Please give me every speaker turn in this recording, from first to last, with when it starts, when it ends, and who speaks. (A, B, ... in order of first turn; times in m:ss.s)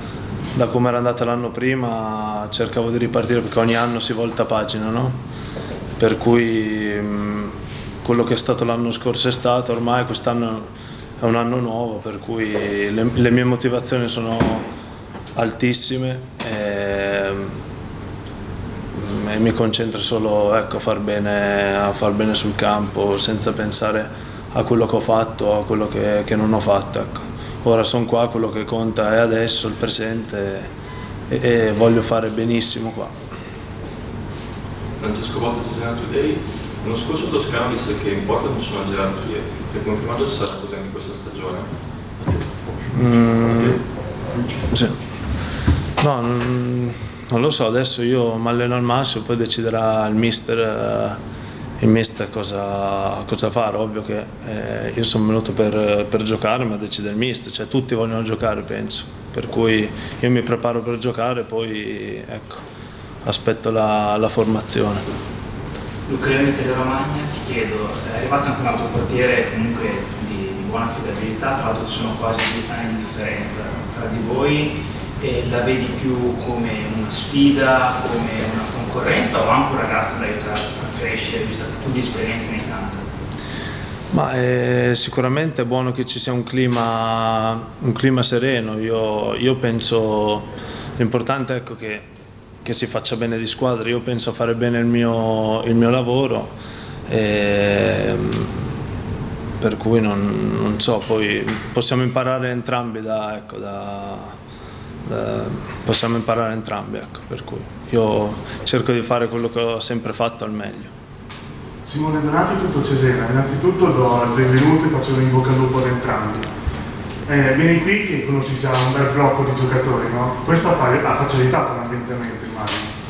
0:00.5-0:05.1 A
0:06.0-0:10.7 A
0:11.2-0:14.6 A
0:15.4-0:17.5 A
0:18.9-0:30.7 A
0:31.3-0:33.1 A
0:35.0-0:44.6 B
0:42.9-0:43.8 A
0:44.7-0:45.0 A
0:46.0-0:51.2 A
0:51.8-1:02.6 A
1:03.2-1:05.0 A
1:06.1-1:23.0 C
1:24.1-1:30.4 A
1:31.0-1:32.1 A
1:32.6-1:36.5 A
1:37.1-1:38.5 A
1:39.6-1:44.3 A
1:45.0-1:50.9 A
1:51.9-1:56.5 D
1:57.3-2:02.9 D